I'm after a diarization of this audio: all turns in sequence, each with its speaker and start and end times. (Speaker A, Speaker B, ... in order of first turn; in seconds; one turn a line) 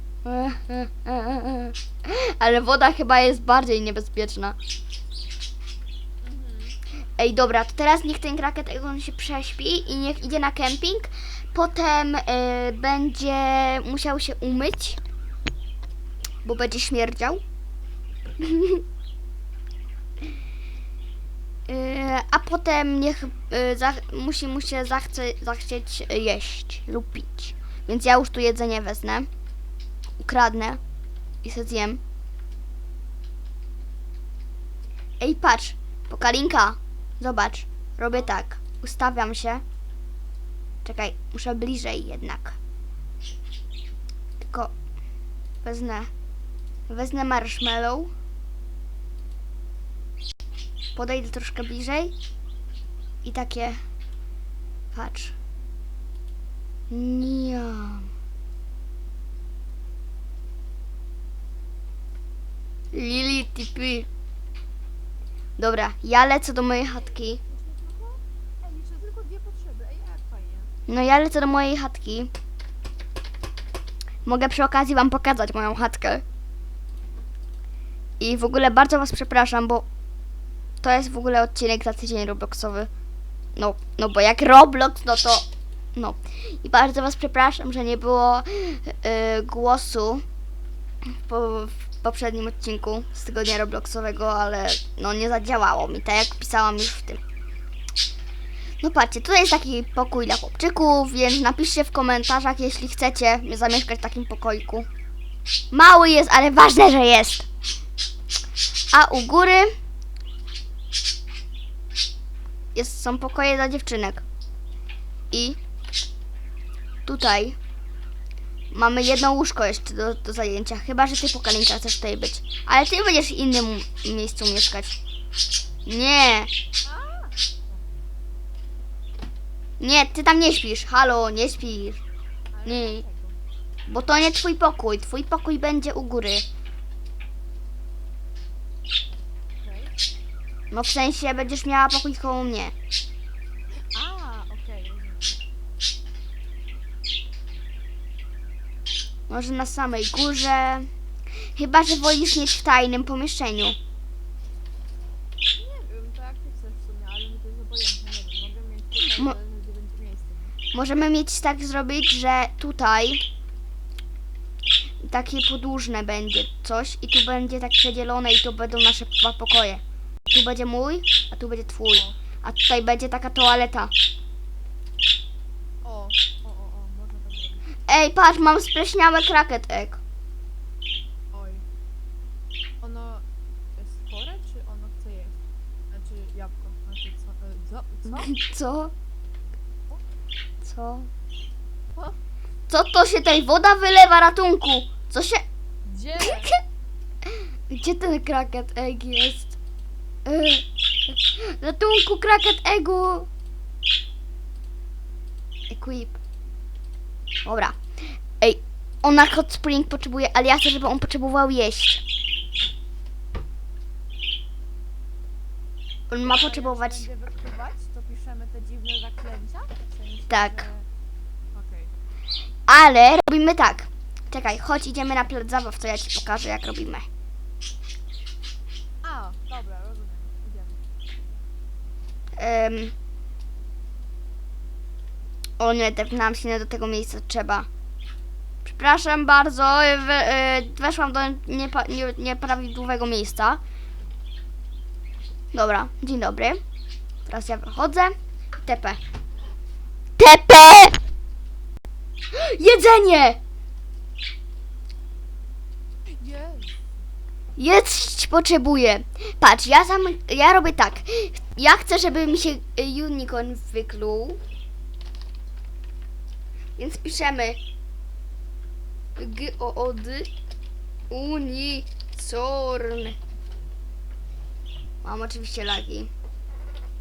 Speaker A: 0.2-4.5
Speaker B: 6.2-6.8
Speaker A: 7.2-15.0
Speaker A: 16.4-17.4
Speaker A: 18.4-18.8
Speaker A: 21.7-29.3
Speaker A: 30.2-30.8
Speaker A: 31.4-32.0
Speaker A: 35.2-39.6
Speaker A: 40.8-42.6
Speaker A: 44.4-44.7
Speaker A: 45.6-46.1
Speaker A: 46.9-48.1
Speaker A: 51.0-52.1
Speaker A: 53.2-53.8
Speaker A: 54.9-55.3
Speaker A: 56.9-58.1
Speaker A: 62.9-64.1
Speaker A: 65.6-67.4
Speaker B: 67.4-70.7
Speaker A: 70.9-72.3
Speaker A: 74.2-76.2
Speaker A: 78.2-79.8
Speaker A: 80.8-82.9
Speaker A: 83.5-90.2
Speaker A: 91.1-97.2
Speaker A: 98.8-104.9
Speaker A: 105.7-107.5
Speaker A: 108.9-109.7
Speaker A: 112.7-114.2
Speaker A: 115.3-115.6
Speaker A: 117.0-117.6
Speaker A: 118.7-125.0
Speaker A: 125.8-126.5
Speaker B: 126.8-127.4
Speaker A: 129.8-132.0
Speaker B: 132.5-133.4
Speaker A: 132.6-133.0
Speaker A: 133.9-136.5
Speaker B: 139.6-139.9
Speaker A: 140.7-142.7
Speaker B: 143.9-145.4
Speaker A: 149.3-150.9
Speaker A: 151.5-153.8
Speaker B: 155.5-160.6
Speaker A: 159.1-159.3
Speaker A: 160.7-163.2
Speaker A: 165.0-173.9
Speaker B: 175.8-177.7
Speaker A: 177.9-180.0
Speaker B: 181.3-181.6
Speaker B: 182.8-185.4
Speaker B: 185.9-188.3
Speaker A: 188.1-188.9
Speaker A: 190.6-191.1
Speaker A: 192.7-195.4
Speaker B: 195.8-196.5
Speaker A: 196.2-196.5
Speaker A: 197.7-199.6
Speaker A: 200.2-203.3
Speaker A: 205.7-206.2
Speaker A: 207.4-207.8
Speaker A: 208.4-212.0
Speaker A: 216.1-217.1
Speaker B: 216.2-220.9
Speaker A: 220.3-220.6
Speaker B: 221.5-221.9
Speaker A: 222.7-227.1
Speaker B: 229.0-230.8
Speaker A: 232.4-232.9
Speaker A: 235.6-237.7
Speaker A: 238.6-243.6
Speaker A: 245.5-246.6
Speaker A: 247.2-249.0
Speaker A: 250.2-251.0
Speaker A: 252.3-253.4
Speaker B: 256.1-256.8
Speaker A: 257.6-264.4
Speaker A: 266.8-267.6
Speaker A: 269.2-270.3
Speaker A: 271.1-273.2
Speaker A: 275.0-276.1